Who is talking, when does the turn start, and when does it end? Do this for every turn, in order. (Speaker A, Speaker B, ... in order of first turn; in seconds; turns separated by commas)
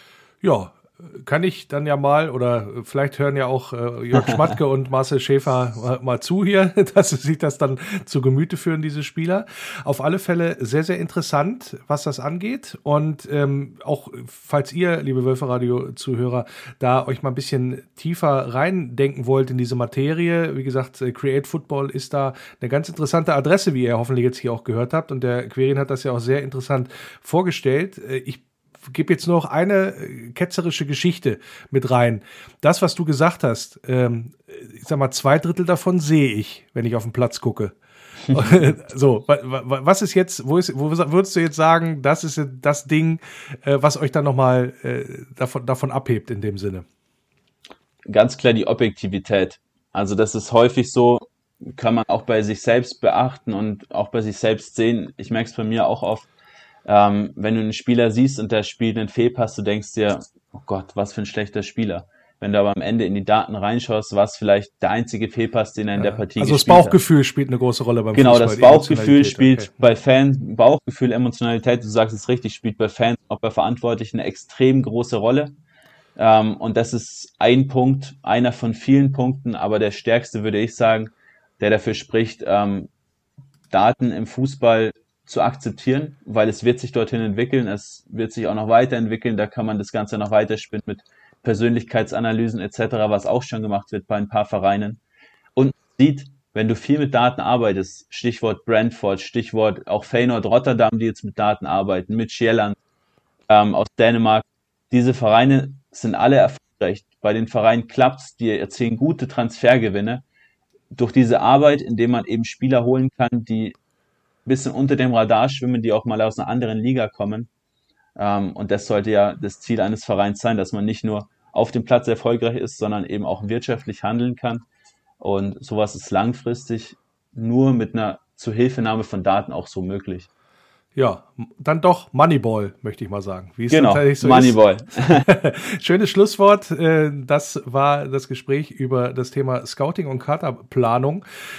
Speaker A: 0.4-37.7, Speaker B: 4.1-4.5, Speaker B: 38.3-38.6, Speaker A: 38.3-46.8, Speaker B: 48.1-56.3, Speaker B: 56.8-67.0, Speaker A: 66.0-69.8, Speaker B: 68.1-75.5, Speaker B: 76.2-82.9, Speaker B: 83.7-95.0, Speaker B: 95.5-102.8, Speaker B: 103.5-110.2, Speaker B: 110.9-113.8, Speaker B: 114.4-117.5, Speaker B: 118.2-124.6, Speaker B: 125.2-130.3, Speaker A: 130.9-134.6, Speaker B: 133.7-135.2, Speaker A: 135.2-141.2